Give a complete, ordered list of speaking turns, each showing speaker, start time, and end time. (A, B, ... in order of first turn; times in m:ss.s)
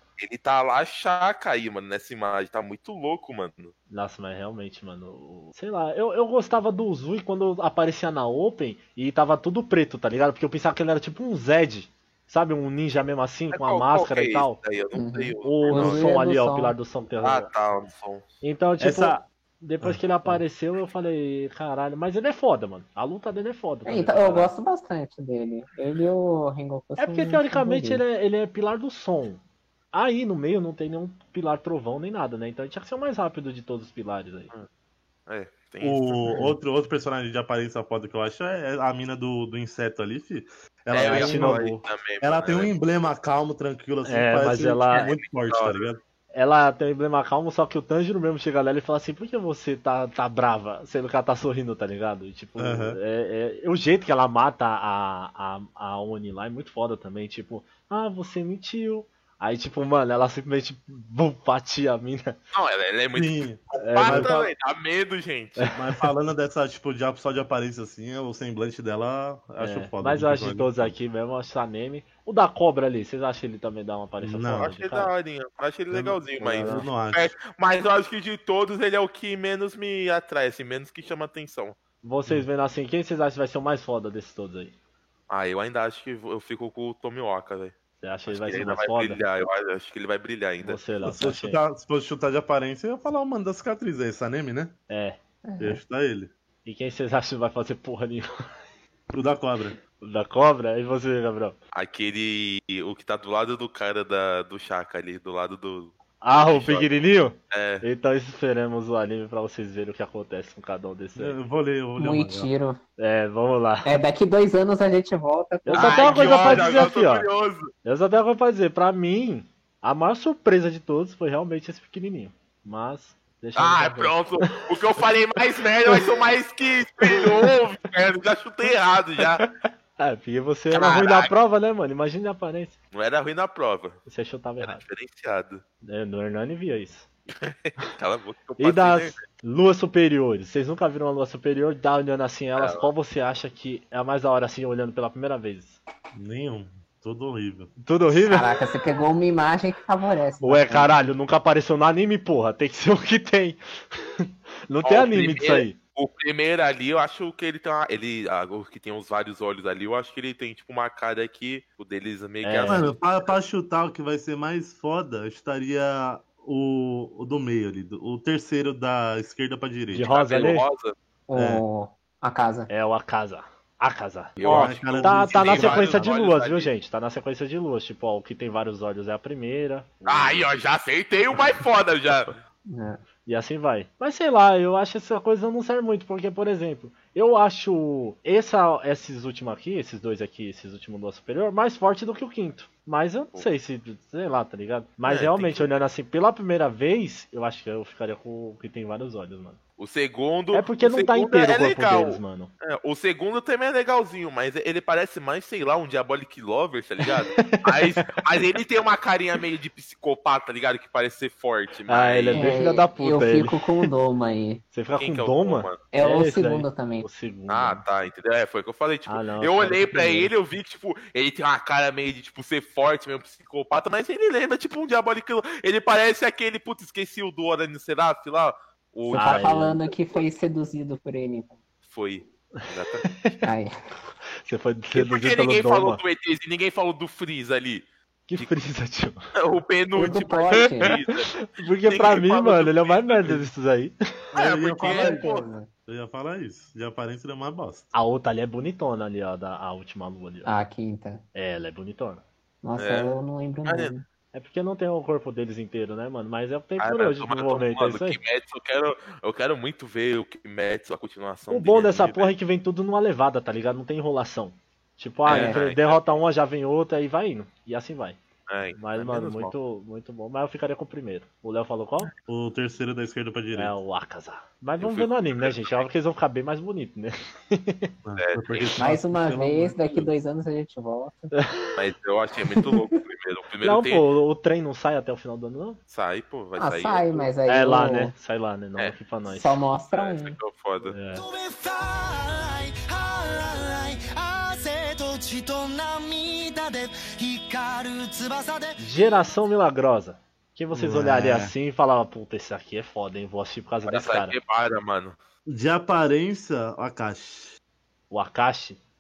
0:00.2-0:03.7 A
0:03.9-0:14.6 B
0:13.5-0:16.1 A
0:14.9-0:16.8 C
0:15.4-0:17.5 B
0:17.2-0:18.3 A
0:18.4-0:24.5 B
0:18.8-0:19.2 D
0:19.8-0:20.4 D
0:23.9-0:28.0 C
0:27.0-0:29.4 B
0:29.9-0:34.5 B
0:35.3-0:36.4 A
0:35.8-0:41.7 D
0:40.9-0:42.7 A
0:41.0-0:41.8 B
0:42.2-0:46.0 D
0:44.0-0:45.1 B
0:44.9-0:45.9 A
0:46.3-1:02.4 B
0:52.6-0:53.0 D
1:02.5-1:05.7 A
1:03.1-1:04.5 D
1:03.8-1:04.3 B
1:05.8-1:11.0 D
1:09.6-1:15.1 B
1:14.2-1:14.7 D
1:14.6-1:21.8 A
1:15.9-1:17.3 D
1:16.4-1:16.9 B
1:22.0-1:24.8 B
1:25.3-1:27.7 A
1:28.0-1:29.2 B
1:28.3-1:30.8 A
1:30.6-1:31.6 B
1:31.0-1:34.8 D
1:34.9-1:35.2 B
1:35.4-1:35.8 C
1:35.6-1:36.3 D
1:36.6-1:38.3 B
1:39.1-1:39.8 D
1:40.0-1:41.6 B
1:41.7-1:46.9 A
1:46.2-1:51.4 B
1:47.5-1:47.8 A
1:51.2-1:52.5 D
1:52.0-1:52.8 C
1:53.0-1:53.9 B
1:53.8-1:56.9 C
1:55.6-1:57.3 B
1:55.7-1:57.7 A
1:57.8-2:04.8 B
2:03.6-2:09.4 A
2:05.9-2:06.2 B
2:07.0-2:07.5 B
2:09.2-2:12.8 B
2:10.7-2:11.3 A
2:12.9-2:14.0 A
2:14.1-2:14.8 B
2:14.6-2:15.6 A
2:15.8-2:17.1 B
2:17.4-2:19.2 A
2:18.6-2:25.8 B
2:22.6-2:22.9 A
2:26.1-2:28.3 D
2:27.8-2:28.5 B
2:28.3-2:31.0 C
2:30.4-2:35.8 B
2:34.8-2:43.4 A
2:42.4-2:42.9 B
2:42.6-2:50.1 D
2:49.9-2:50.7 B
2:50.0-2:51.0 A
2:51.3-2:52.7 C
2:51.4-2:51.6 D
2:52.7-3:00.5 B
2:54.4-2:56.7 A
2:54.4-2:56.1 D
3:00.1-3:02.3 A
3:02.7-3:03.0 C
3:03.2-3:19.6 B
3:15.1-3:15.7 A
3:19.8-3:32.6 A
3:20.5-3:22.5 B
3:27.3-3:28.1 B
3:31.9-3:33.9 B
3:32.3-3:34.6 C
3:34.7-3:37.8 B
3:35.0-3:35.8 A
3:35.9-3:37.1 C
3:37.5-3:50.2 A
3:39.1-3:40.3 B
3:49.1-3:49.8 B
3:49.1-3:51.6 C
3:51.8-3:53.1 A
3:52.6-3:53.4 B
3:53.4-3:53.7 C
3:54.4-3:56.0 B
3:55.0-3:58.5 A
3:58.3-3:59.2 B
3:59.4-4:03.4 A
4:00.0-4:01.0 C
4:00.6-4:04.0 B
4:04.3-4:05.3 D
4:04.4-4:05.5 A
4:04.8-4:05.7 C
4:05.9-4:07.9 D
4:07.9-4:10.5 B
4:10.4-4:11.2 C
4:11.4-4:12.2 B
4:12.6-4:14.0 C
4:12.8-4:13.9 A
4:14.3-4:18.2 B
4:16.8-4:22.3 A
4:21.5-4:28.2 B
4:25.3-4:25.6 C
4:25.3-4:26.2 A
4:28.5-4:29.5 A
4:28.8-4:32.1 B
4:32.3-4:33.8 D
4:33.5-4:37.9 B
4:34.8-4:35.9 A
4:38.0-4:40.1 D
4:38.2-4:38.7 A
4:38.8-4:41.3 C
4:41.3-4:41.8 B
4:41.8-4:44.0 A
4:42.6-4:42.8 C
4:43.6-4:45.8 B
4:45.9-4:47.3 A
4:46.6-4:48.1 C
4:47.5-4:49.6 B
4:49.3-4:50.4 C
4:49.9-4:51.0 A
4:50.9-4:51.2 B
4:51.1-4:59.4 E
4:58.8-5:04.4 B
5:00.7-5:01.5 D
5:03.9-5:05.2 A
5:05.5-5:07.5 D
5:08.1-5:08.8 B